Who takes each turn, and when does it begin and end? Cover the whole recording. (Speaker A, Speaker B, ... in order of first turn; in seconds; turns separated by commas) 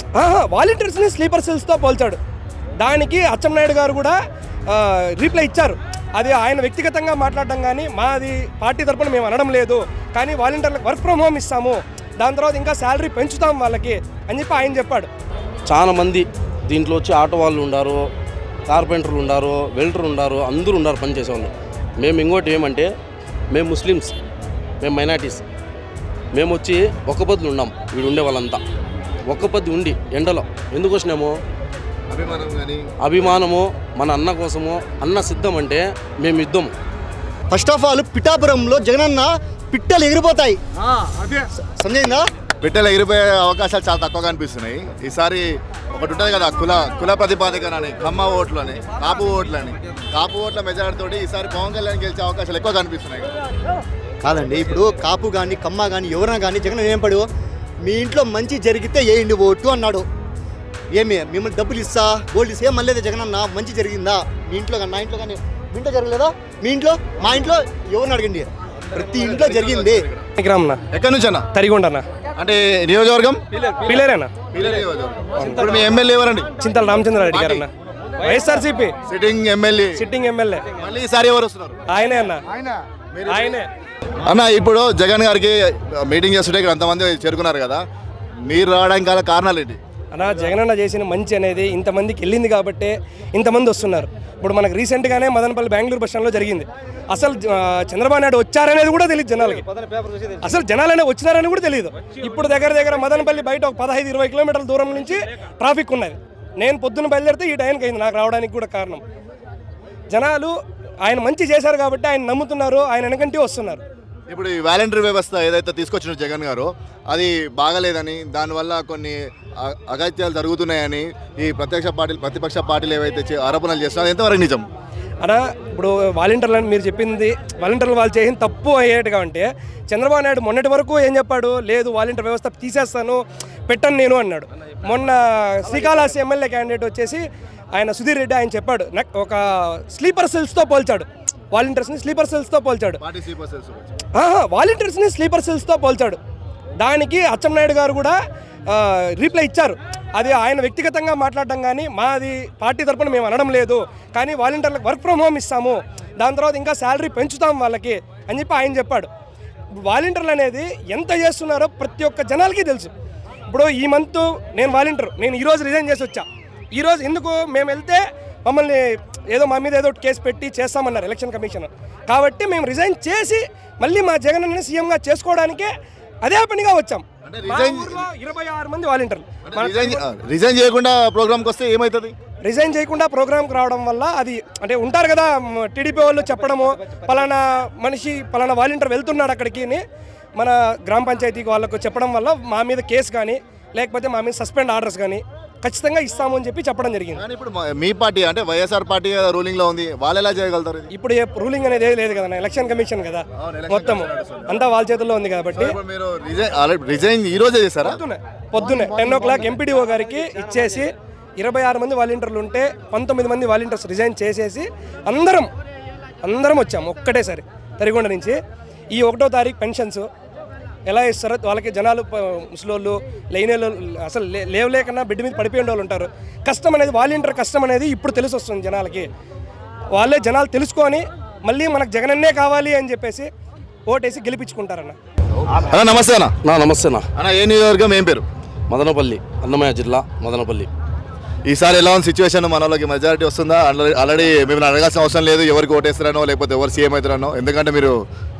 Speaker A: 0.2-2.2, Speaker A: 2.8-4.2, Speaker A: 4.7-15.1, Speaker B: 15.7-18.1, Speaker B: 18.7-22.9, Speaker B: 23.5-24.1, Speaker B: 24.8-25.4, Speaker B: 26.3-28.6, Speaker B: 29.3-31.4, Speaker C: 32.1-32.9, Speaker B: 33.0-36.7, Speaker D: 37.5-40.6, Speaker D: 41.4-42.3, Speaker C: 42.6-53.3, Speaker D: 54.2-57.3, Speaker D: 57.8-60.0, Speaker D: 60.9-70.1, Speaker C: 69.2-70.3, Speaker A: 70.4-70.8, Speaker C: 70.9-71.5, Speaker A: 71.5-72.0, Speaker C: 72.4-73.4, Speaker A: 73.8-74.3, Speaker C: 74.5-76.5, Speaker A: 75.4-75.6, Speaker A: 76.6-79.0, Speaker C: 77.3-77.7, Speaker C: 79.1-80.0, Speaker A: 80.0-80.7, Speaker C: 80.8-81.8, Speaker A: 81.9-82.4, Speaker C: 83.1-83.6, Speaker A: 83.3-83.7, Speaker C: 84.2-87.8, Speaker C: 88.5-89.8, Speaker A: 90.1-99.7, Speaker A: 100.4-109.0, Speaker A: 110.1-113.8, Speaker C: 114.3-124.7, Speaker A: 125.2-143.0, Speaker C: 143.0-143.9, Speaker A: 144.2-146.2, Speaker A: 146.8-148.2, Speaker A: 148.7-159.1, Speaker A: 159.7-162.9, Speaker A: 163.5-175.7, Speaker A: 176.2-180.0, Speaker C: 177.2-178.1, Speaker C: 179.4-182.2, Speaker A: 182.4-189.8, Speaker A: 190.4-197.2, Speaker C: 197.2-200.9, Speaker A: 200.9-205.8, Speaker C: 203.4-204.6, Speaker C: 205.5-208.0, Speaker A: 207.8-215.5, Speaker A: 216.2-218.4, Speaker A: 218.9-220.1, Speaker A: 220.9-229.1, Speaker A: 229.9-233.3, Speaker A: 233.9-235.0, Speaker C: 235.5-236.3, Speaker B: 236.4-237.0, Speaker C: 237.2-238.3, Speaker B: 238.7-240.7, Speaker C: 241.5-248.0